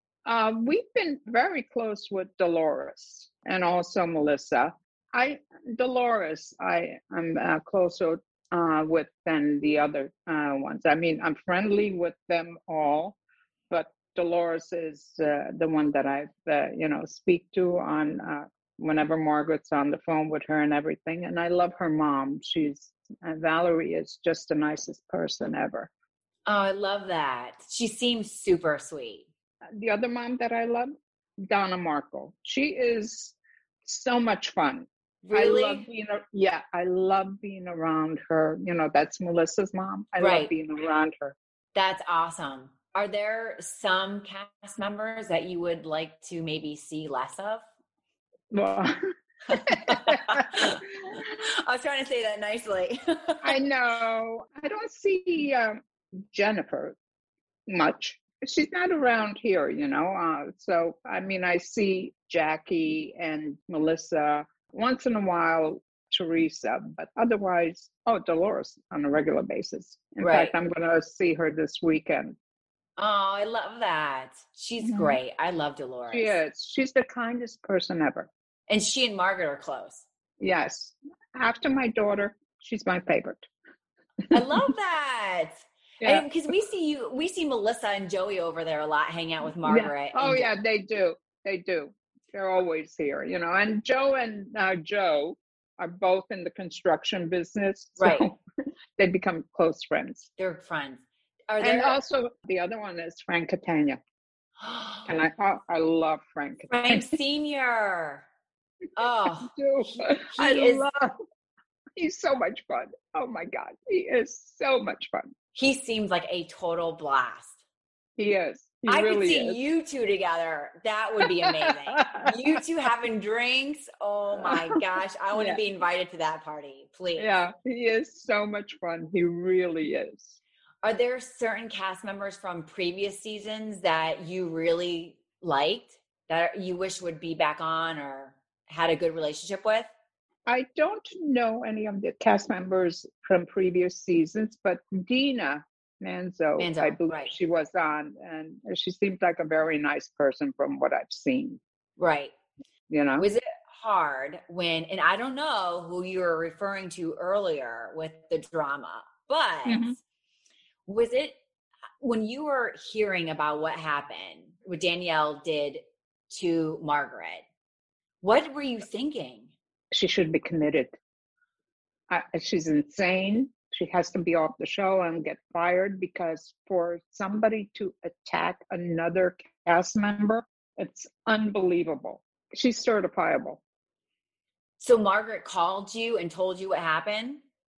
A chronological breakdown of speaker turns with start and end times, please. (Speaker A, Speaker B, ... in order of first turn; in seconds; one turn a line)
Speaker A: 0.2-13.2
Speaker A: 13.7-25.9
Speaker B: 26.4-29.3
Speaker A: 29.8-41.4
Speaker B: 35.2-35.8
Speaker B: 40.2-40.5
Speaker B: 41.7-47.6
Speaker A: 48.5-49.0
Speaker B: 49.5-53.6
Speaker A: 49.5-50.8
Speaker A: 53.4-55.8
Speaker A: 56.3-57.0
Speaker A: 57.7-72.4
Speaker B: 70.2-70.5
Speaker B: 73.0-76.3
Speaker A: 74.8-75.2
Speaker A: 76.1-78.3
Speaker B: 78.7-80.0
Speaker A: 80.4-83.5
Speaker A: 84.2-84.7
Speaker B: 84.3-90.5
Speaker A: 86.0-86.3
Speaker A: 89.6-98.4
Speaker B: 98.0-98.3
Speaker A: 99.0-100.3
Speaker B: 100.4-102.0
Speaker A: 101.6-104.0
Speaker B: 104.6-105.1
Speaker A: 105.0-107.2
Speaker B: 106.7-108.3
Speaker B: 109.0-110.8
Speaker A: 109.4-111.1
Speaker A: 112.0-115.3
Speaker B: 115.5-117.6
Speaker A: 118.2-119.6
Speaker B: 118.9-127.3
Speaker A: 121.2-122.3
Speaker A: 124.3-124.8
Speaker A: 125.3-125.6
Speaker A: 127.2-130.4
Speaker B: 130.8-139.9
Speaker A: 140.4-151.6
Speaker B: 146.6-147.3
Speaker B: 152.0-152.3
Speaker A: 152.9-153.3
Speaker B: 153.2-160.0
Speaker A: 159.7-159.9
Speaker B: 160.9-161.3
Speaker B: 162.0-167.4
Speaker B: 168.2-169.5
Speaker A: 169.9-170.9
Speaker A: 172.1-183.6
Speaker B: 184.8-187.4